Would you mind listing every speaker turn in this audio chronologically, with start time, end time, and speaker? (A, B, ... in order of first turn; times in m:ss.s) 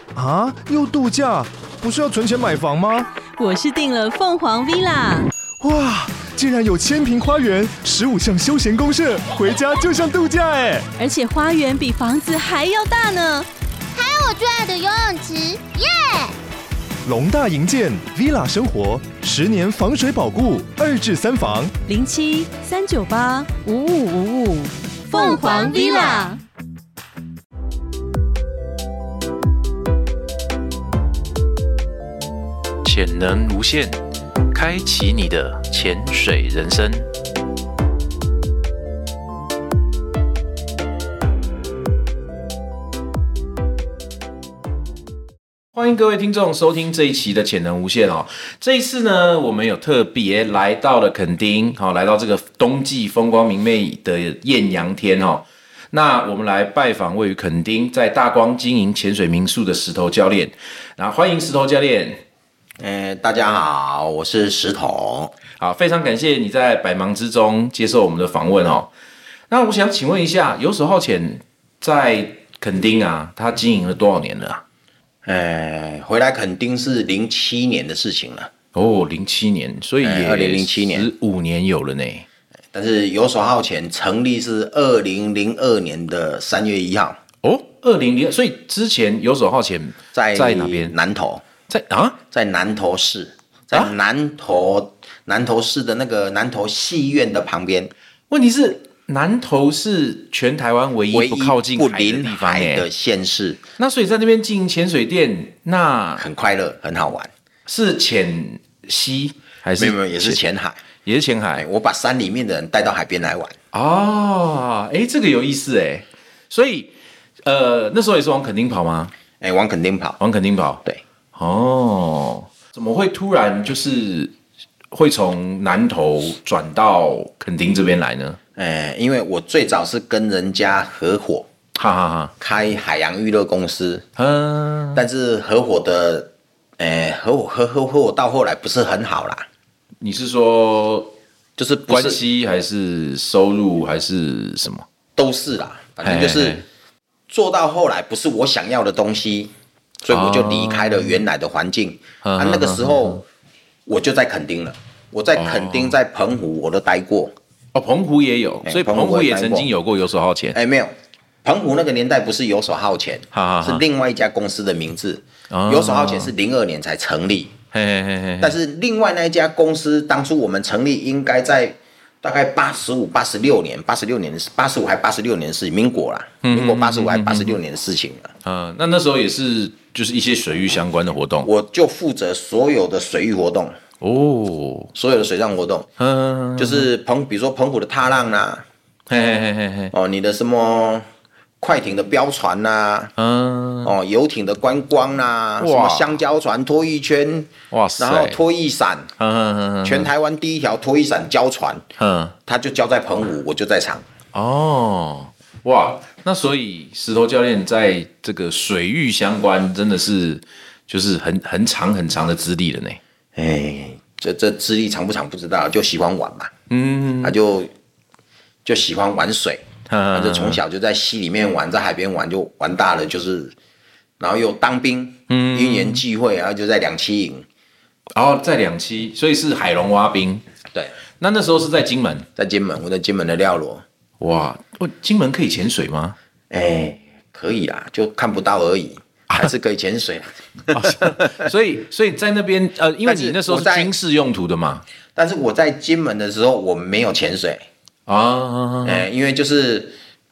0:00.1-0:03.1 A
0:03.4-0:05.3 B
0:05.6-0:10.9 A
0:11.0-0:13.5 B
0:13.9-0:16.3 C
0:17.0-0:21.7 A
0:21.9-0:26.4 B
0:25.1-0:26.3 C
0:32.8-0:34.0 D
0:34.5-0:37.1 D
0:45.7-1:02.2 D
1:02.8-1:05.3 E
1:05.6-1:08.9 D
1:09.5-1:14.6 D
1:15.2-1:18.5 E
1:18.7-1:22.2 D
1:20.0-1:21.1 E
1:22.7-1:27.2 E
1:27.4-1:30.9 D
1:30.1-1:31.4 E
1:31.7-1:32.2 D
1:32.3-1:37.9 E
1:38.3-1:42.8 D
1:41.1-1:43.6 E
1:43.8-1:46.2 D
1:46.2-1:47.3 E
1:47.6-1:50.4 D
1:49.8-1:50.8 E
1:51.0-1:51.6 D
1:51.6-1:53.6 E
1:53.7-1:56.9 D
1:57.4-1:59.1 D
1:59.4-2:00.2 E
2:00.2-2:04.3 D
2:04.9-2:08.4 D
2:08.6-2:11.5 E
2:11.8-2:12.3 D
2:12.4-2:14.0 E
2:14.2-2:15.0 D
2:14.9-2:19.4 E
2:20.0-2:21.1 D
2:21.6-2:22.2 E
2:21.9-2:24.8 D
2:25.2-2:26.6 E
2:26.0-2:26.6 D
2:27.3-2:29.5 E
2:30.0-2:33.2 E
2:30.1-2:31.2 D
2:32.2-2:33.2 D
2:33.9-2:37.3 E
2:35.4-2:36.0 D
2:37.7-2:40.6 D
2:38.6-2:39.7 E
2:40.5-2:40.9 E
2:41.4-2:47.5 E
2:43.3-2:43.8 D
2:45.5-2:46.3 D
2:47.7-2:48.6 D
2:48.4-2:58.3 E
2:56.4-2:57.6 D
2:58.4-3:01.5 D
3:01.4-3:03.8 E
3:04.0-3:04.9 D
3:04.9-3:05.9 E
3:06.0-3:06.9 D
3:06.6-3:08.6 E
3:09.1-3:09.9 D
3:09.9-3:11.0 E
3:11.6-3:13.1 E
3:13.2-3:13.9 D
3:13.8-3:19.1 E
3:15.6-3:16.2 D
3:17.7-3:18.4 D
3:19.2-3:20.1 D
3:19.8-3:21.8 E
3:22.0-3:22.4 D
3:22.4-3:24.1 E
3:24.3-3:33.0 D
3:33.4-3:36.5 E
3:36.7-3:37.4 D
3:37.2-3:37.7 E
3:38.6-3:43.5 E
3:39.9-3:40.6 D
3:44.2-3:47.4 E
3:45.3-3:46.0 D
3:48.1-3:50.4 D
3:51.2-3:52.3 D
3:52.4-3:53.8 E
3:54.2-3:56.2 D
3:56.5-4:01.4 E
4:00.7-4:04.8 D
4:03.0-4:03.9 E
4:05.1-4:07.6 E
4:08.1-4:09.0 D
4:08.8-4:10.0 E